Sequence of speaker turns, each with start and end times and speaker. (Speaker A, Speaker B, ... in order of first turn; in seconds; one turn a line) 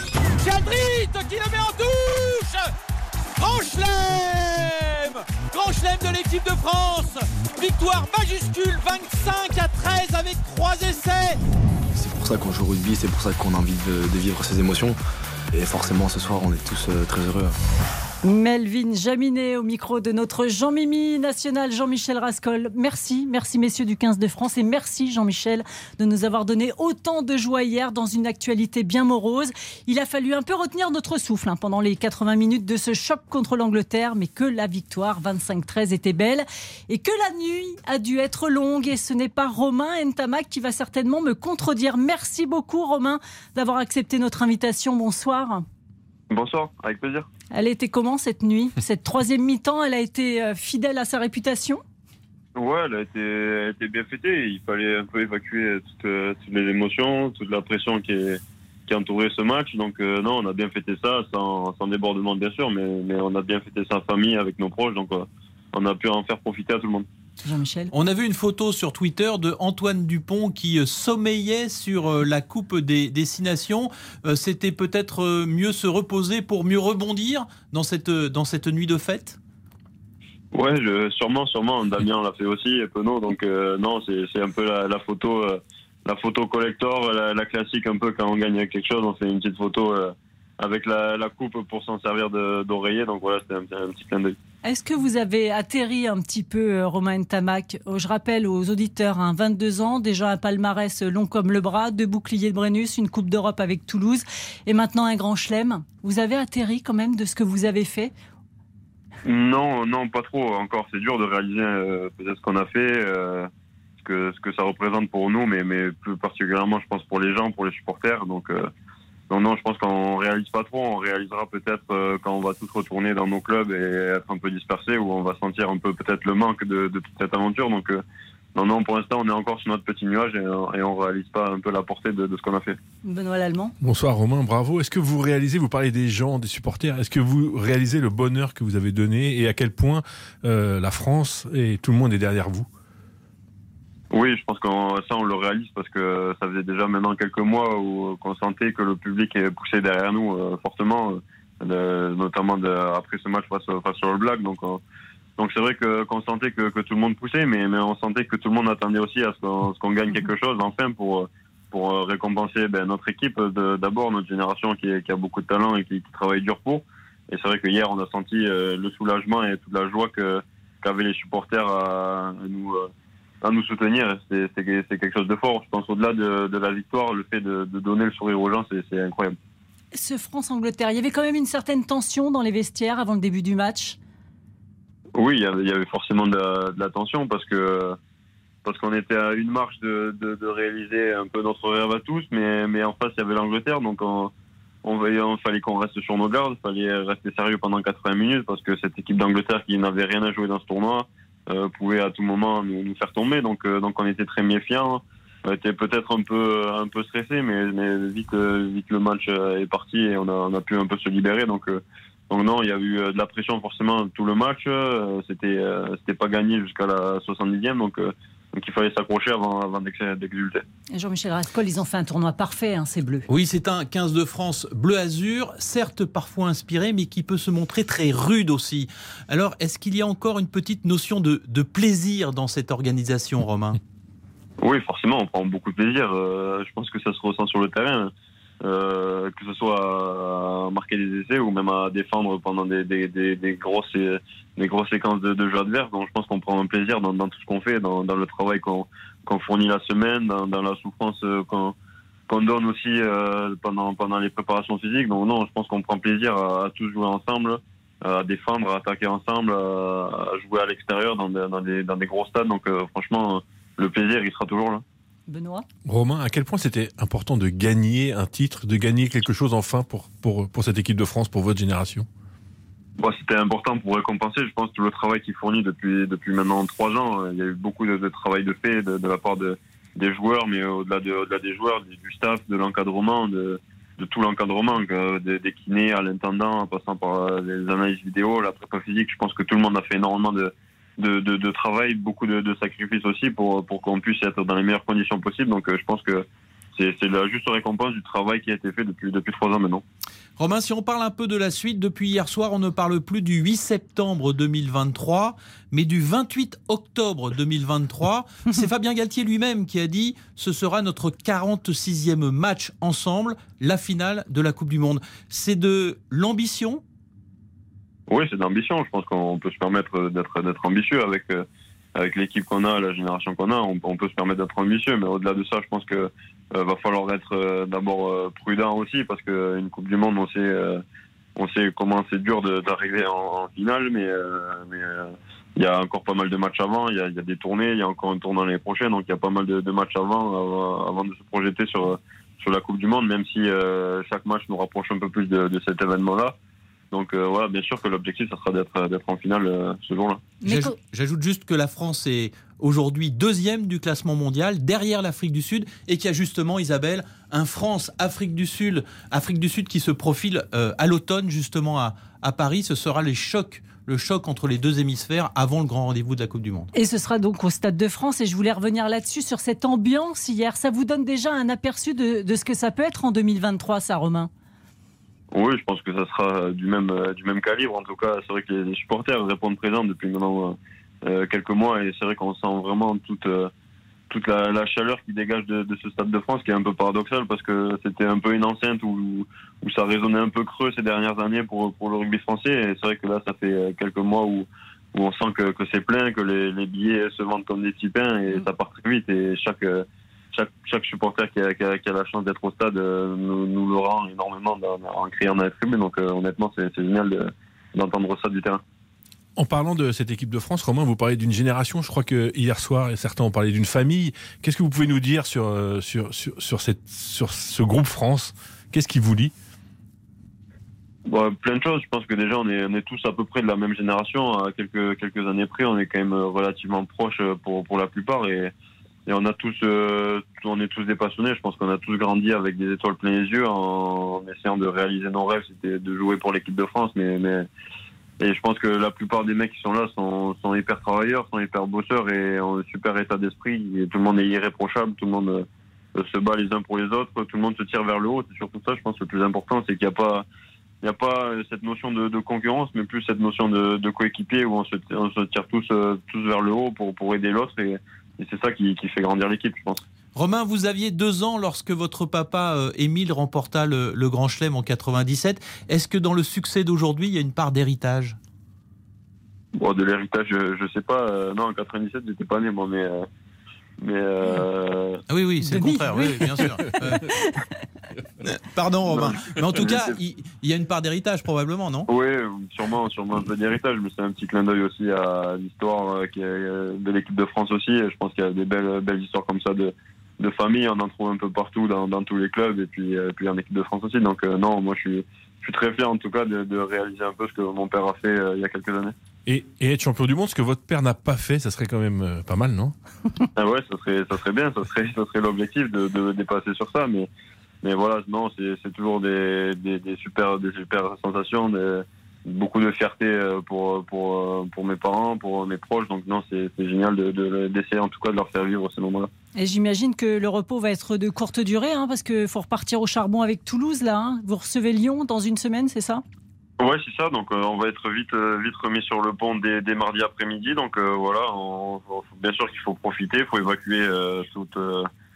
Speaker A: 0.4-2.7
Speaker A: 3.4-11.4
Speaker B: 11.9-15.0
Speaker B: 15.5-17.6
Speaker C: 18.2-45.6
Speaker D: 46.3-47.3
Speaker C: 47.5-51.8
Speaker D: 52.5-67.0
Speaker C: 67.4-67.9
Speaker E: 67.9-79.4
Speaker D: 80.5-94.4
Speaker C: 94.6-108.1
Speaker D: 109.2-113.5
Speaker D: 114.0-118.7
Speaker D: 119.3-128.0
Speaker D: 128.5-132.8
Speaker C: 133.0-133.7
Speaker F: 133.8-142.7
Speaker D: 144.1-154.8
Speaker D: 155.4-172.9
Speaker D: 173.4-179.4
Speaker C: 179.9-184.0
Speaker D: 185.1-188.0
Speaker D: 188.6-194.3
Speaker D: 194.8-220.6
Speaker C: 220.9-223.2
Speaker E: 223.3-233.8
Speaker D: 234.6-238.1
Speaker D: 238.6-251.7
Speaker D: 252.3-264.8
Speaker C: 265.3-265.6
Speaker F: 265.9-272.1
Speaker D: 273.0-299.8
Speaker E: 300.4-316.8
Speaker D: 318.1-330.8
Speaker D: 331.4-346.4
Speaker D: 346.9-350.3
Speaker C: 350.4-350.8
Speaker E: 350.4-366.7
Speaker C: 366.7-374.3
Speaker D: 375.3-383.5
Speaker D: 384.1-408.6
Speaker F: 409.4-419.3
Speaker D: 421.1-428.5
Speaker D: 429.1-437.5
Speaker D: 438.2-450.2
Speaker D: 450.8-459.8
Speaker E: 460.1-468.2
Speaker D: 469.6-473.1
Speaker D: 473.8-475.0
Speaker E: 475.1-477.1
Speaker C: 475.4-477.5
Speaker E: 478.3-481.9
Speaker D: 481.9-498.9
Speaker F: 499.2-502.8
Speaker D: 503.4-507.1
Speaker D: 507.6-519.1
Speaker C: 519.4-526.0
Speaker D: 526.6-534.9